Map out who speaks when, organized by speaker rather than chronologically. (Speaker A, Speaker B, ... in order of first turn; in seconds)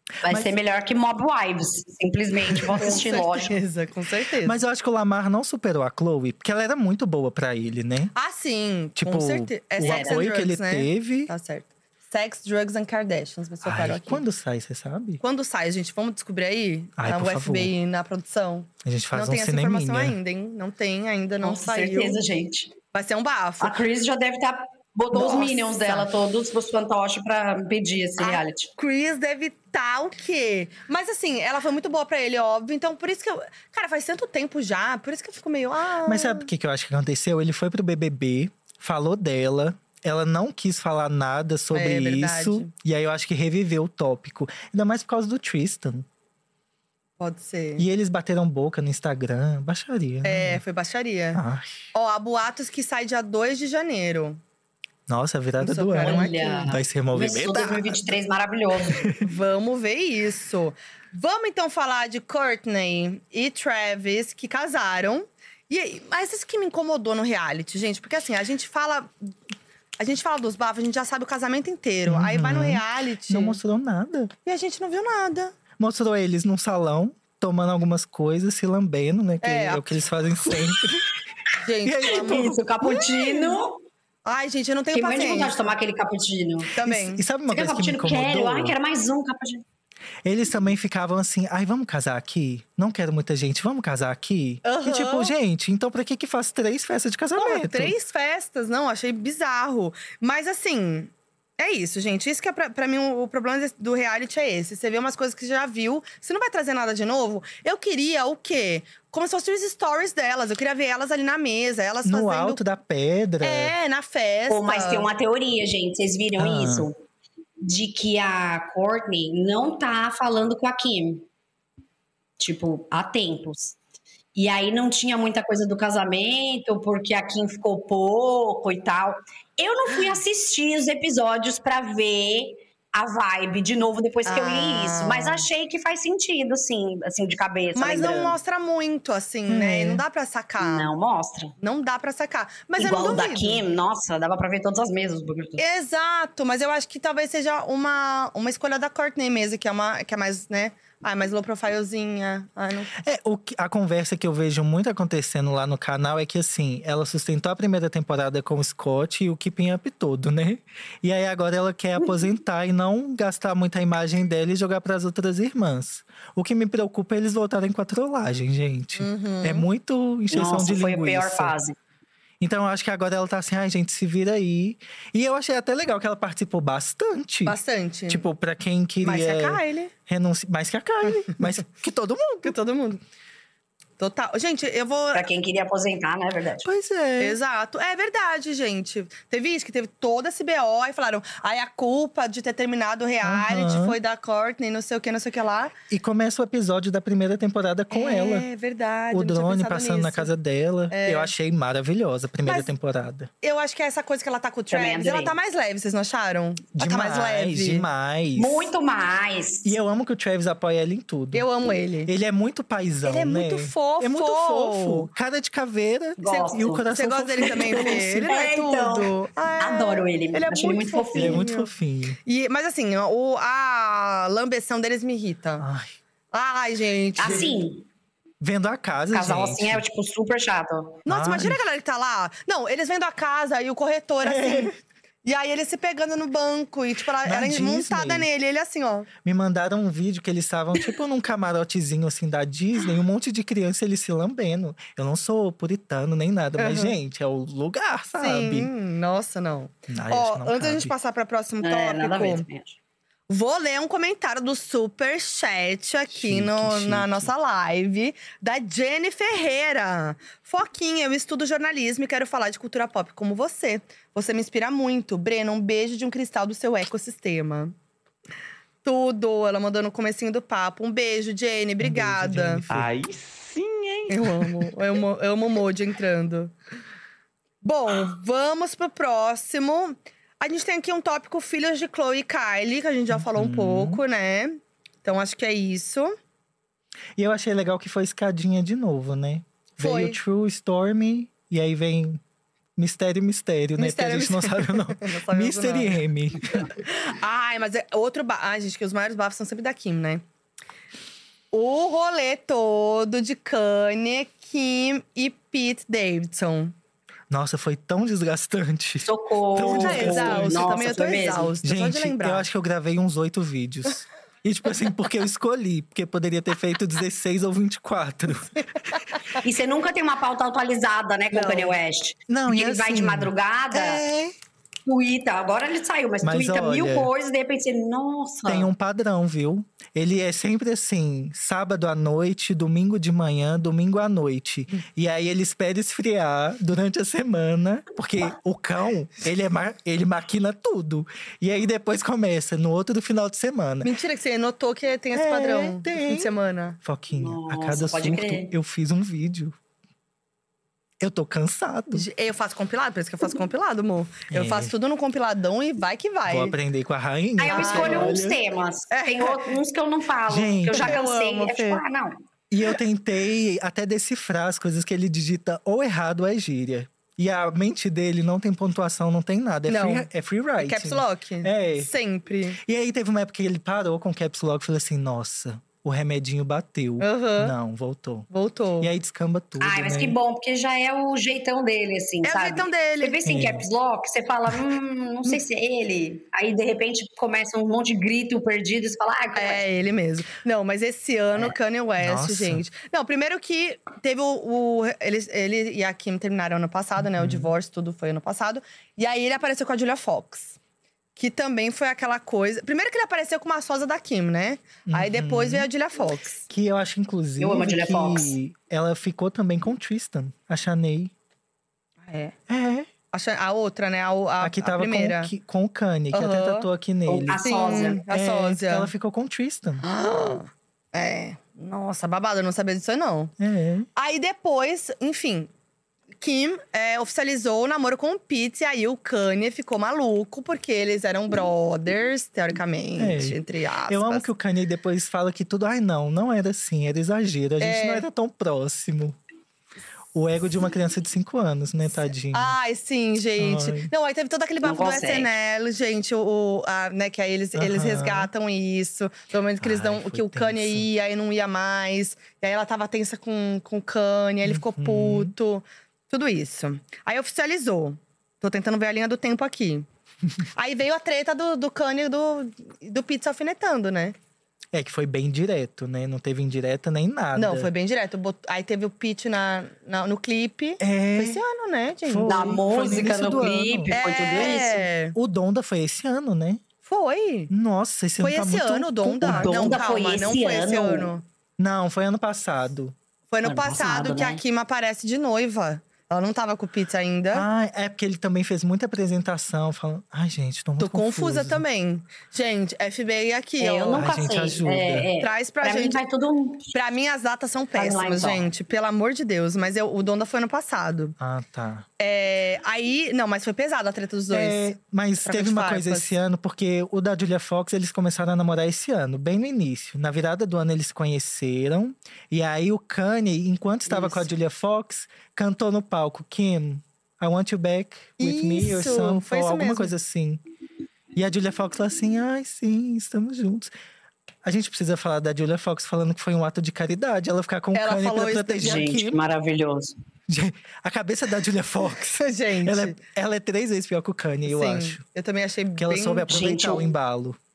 Speaker A: 0.2-3.5, 9.8-10.2, 21.4-22.8, 23.6-28.7, 56.0-59.0, 82.1-83.8, 84.9-86.7, 87.5-89.6, 114.5-117.0, 117.6-121.2, 122.4-123.8, 124.3-138.4, 139.5-140.0, 140.6-141.5, 142.8-145.6, 170.3-171.7, 185.1-186.7, 204.7-205.3, 208.3-209.8, 216.2-216.8, 217.4-221.5, 227.2-227.8, 229.1-231.0, 251.6-252.8, 309.0-311.5, 319.4-324.1, 324.9-328.7, 347.1-348.5, 357.4-362.2, 379.6-389.6, 407.4-408.4, 417.1-418.0, 444.6-445.3, 472.2-474.9, 479.2-481.1, 483.4-484.4, 493.6-496.7, 497.7-498.5, 528.6-529.9, 536.3-536.9
Speaker B: 0.2-0.5, 4.4-8.1, 8.9-11.3, 13.6-15.2, 17.0-17.7, 18.8-20.2, 36.0-46.0, 47.8-50.6, 51.3-51.8, 55.1-58.1, 58.9-59.2, 72.1-74.3, 75.8-81.1, 81.8-82.9, 86.8-88.8, 90.2-97.9, 112.0-113.7, 116.4-116.9, 152.9-171.5, 172.4-177.6, 178.1-182.6, 186.6-187.4, 193.2-194.0, 195.9-198.5, 199.1-203.3, 206.7-208.7, 209.6-211.5, 212.1-218.3, 221.1-222.2, 225.6-225.9, 228.4-229.8, 231.1-231.6, 234.2-234.8, 237.2-238.3, 239.2-248.7, 249.9-250.9, 256.1-257.3, 271.8-273.0, 283.1-284.0, 287.1-292.2, 292.8-296.7, 307.3-310.8, 311.6-318.9, 322.3-324.3, 326.2-327.1, 328.4-343.9, 345.1-349.5, 351.0-352.1, 354.3-354.7, 356.3-358.4, 360.3-361.0, 362.5-371.9, 372.6-378.3, 378.8-380.2, 383.2-383.6, 392.0-392.6, 397.0-397.5, 404.9-405.7, 406.5-411.1, 412.5-412.9, 414.4-419.8, 423.4-423.9, 433.0-439.2, 440.1-442.5, 443.4-443.9, 447.5-448.3, 449.6-450.9, 454.4-455.3, 464.7-467.7, 470.8-471.4, 472.0-474.6, 475.1-476.6, 477.5-479.6, 481.6-482.9, 487.3-491.6, 493.9-495.1, 501.2-501.9, 504.3-520.4, 521.1-523.7, 524.4-529.2, 530.3-535.0, 535.8-537.4
Speaker C: 2.8-4.6, 8.1-14.2, 15.2-22.2, 22.9-23.8, 25.1-26.1, 28.2-36.5, 41.7-42.7, 47.2-47.8, 50.2-51.4, 51.9-54.4, 55.6-56.8, 59.2-69.3, 70.0-73.6, 74.5-75.5, 79.4-79.8, 81.6-83.5, 84.2-85.6, 86.7-87.2, 94.6-95.3, 97.3-112.6, 113.4-115.1, 134.2-135.5, 137.7-140.9, 141.6-143.6, 145.6-152.9, 168.9-169.7, 177.4-178.2, 179.0-179.9, 182.4-183.0, 184.0-185.3, 187.2-195.7, 197.9-200.3, 200.9-201.3, 203.4-207.9, 211.3-212.1, 213.0-215.1, 216.2-221.7, 222.2-225.7, 226.3-227.6, 231.0-234.7, 235.2-239.1, 246.6-246.9, 248.2-252.4, 253.3-267.7, 268.8-272.6, 274.1-276.5, 277.6-286.1, 289.8-290.2, 293.8-296.0, 296.5-300.2, 301.5-306.7, 309.7-312.5, 321.3-321.7, 343.8-346.8, 351.9-356.5, 357.4-358.2, 358.9-359.5, 360.8-361.8, 369.7-372.6, 377.0-377.5, 378.3-378.9, 382.2-383.2, 389.4-400.6, 401.1-406.4, 412.1-412.3, 413.1-415.3, 416.1-416.7, 417.4-418.9, 419.8-423.3, 423.9-425.5, 426.2-434.2, 437.6-438.0, 442.3-459.9, 460.5-464.1, 467.3-472.4, 473.9-475.1, 476.8-477.5, 478.2-481.2, 483.3-487.4, 490.8-494.1, 495.2-496.0, 496.7-501.1, 502.0-506.1, 513.9-514.2, 518.2-519.9, 527.7-528.9, 532.2-533.0, 534.5-536.4
Speaker D: 272.7-274.7